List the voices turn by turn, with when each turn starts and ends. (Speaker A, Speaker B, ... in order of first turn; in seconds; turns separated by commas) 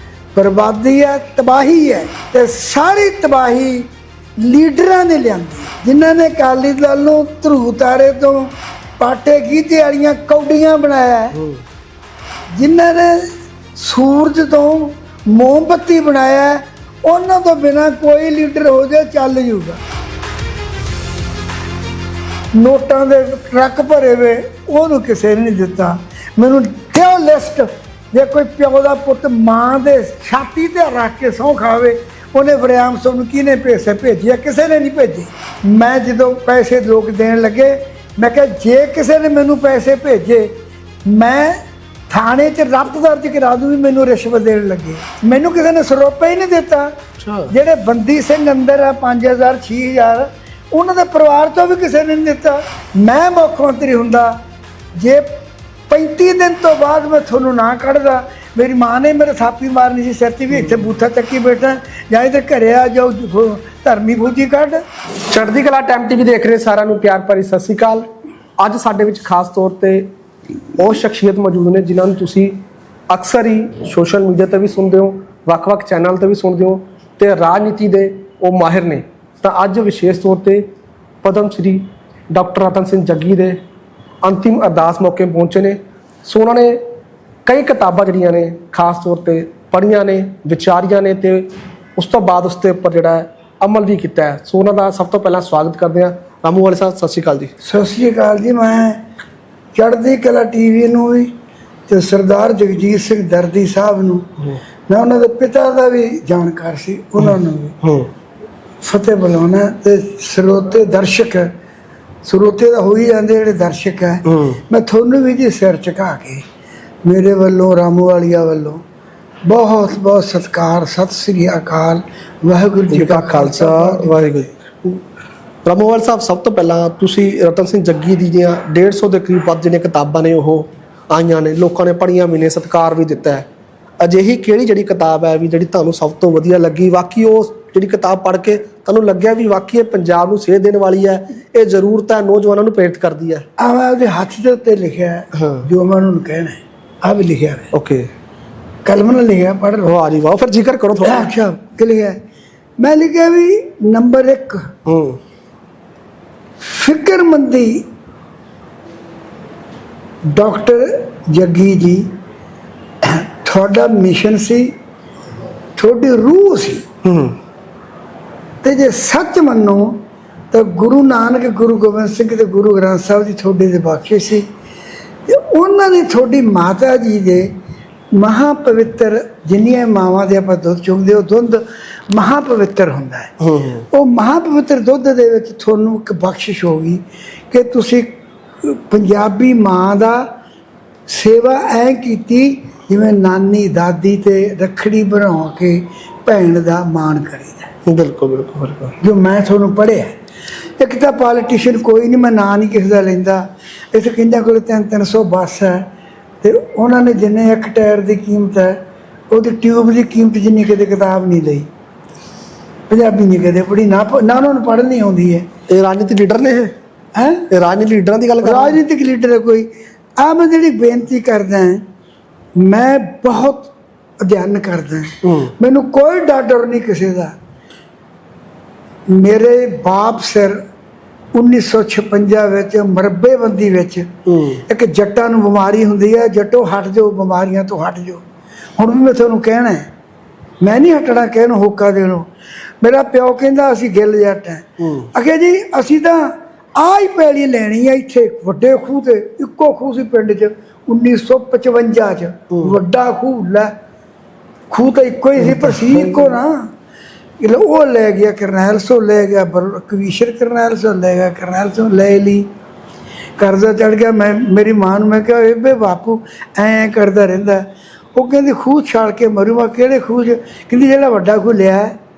Speaker A: 0.3-3.9, Speaker A: 4.4-11.4, Speaker B: 11.3-11.6, Speaker A: 12.5-19.8, Speaker A: 22.5-41.6, Speaker A: 42.1-46.9, Speaker B: 47.2-47.5, Speaker A: 47.5-54.4, Speaker A: 55.0-55.3, Speaker A: 55.9-64.8, Speaker B: 60.5-60.9, Speaker B: 65.3-68.1, Speaker B: 68.6-70.1, Speaker B: 70.8-80.7, Speaker B: 81.2-83.6, Speaker B: 84.2-86.8, Speaker B: 87.5-97.5, Speaker A: 97.6-99.0, Speaker A: 99.7-101.3, Speaker A: 101.9-104.3, Speaker A: 104.9-107.8, Speaker B: 107.2-108.1, Speaker A: 108.8-111.5, Speaker A: 112.2-116.4, Speaker B: 114.3-114.6, Speaker A: 117.0-118.8, Speaker A: 119.4-124.2, Speaker B: 122.9-125.0, Speaker B: 125.6-133.5, Speaker B: 134.0-143.4, Speaker A: 143.6-147.7, Speaker B: 145.3-145.7, Speaker B: 147.7-148.1, Speaker A: 148.8-149.9, Speaker B: 149.8-151.3, Speaker A: 151.0-152.2, Speaker A: 152.8-154.7, Speaker B: 154.8-155.2, Speaker A: 156.6-157.8, Speaker A: 160.3-162.1, Speaker A: 163.0-164.7, Speaker A: 165.8-166.8, Speaker B: 167.0-167.4, Speaker A: 168.6-174.4, Speaker A: 175.3-177.5, Speaker A: 178.1-183.3, Speaker B: 183.4-183.8, Speaker A: 183.9-190.3, Speaker A: 191.1-197.7, Speaker B: 197.8-198.9, Speaker A: 199.0-200.1, Speaker A: 200.8-205.9, Speaker A: 206.4-208.8, Speaker A: 209.3-211.7, Speaker A: 212.9-215.5, Speaker B: 215.7-216.8, Speaker A: 217.1-217.5, Speaker B: 217.5-218.8, Speaker A: 218.4-221.8, Speaker A: 222.6-227.3, Speaker B: 225.2-225.5, Speaker A: 229.1-230.6, Speaker A: 231.3-234.1, Speaker B: 234.2-234.6, Speaker A: 234.7-238.2, Speaker A: 238.8-239.9, Speaker A: 240.6-242.3, Speaker A: 242.8-253.7, Speaker B: 244.8-245.1, Speaker A: 254.7-256.7, Speaker B: 255.4-256.4, Speaker A: 257.4-262.5, Speaker A: 263.4-271.9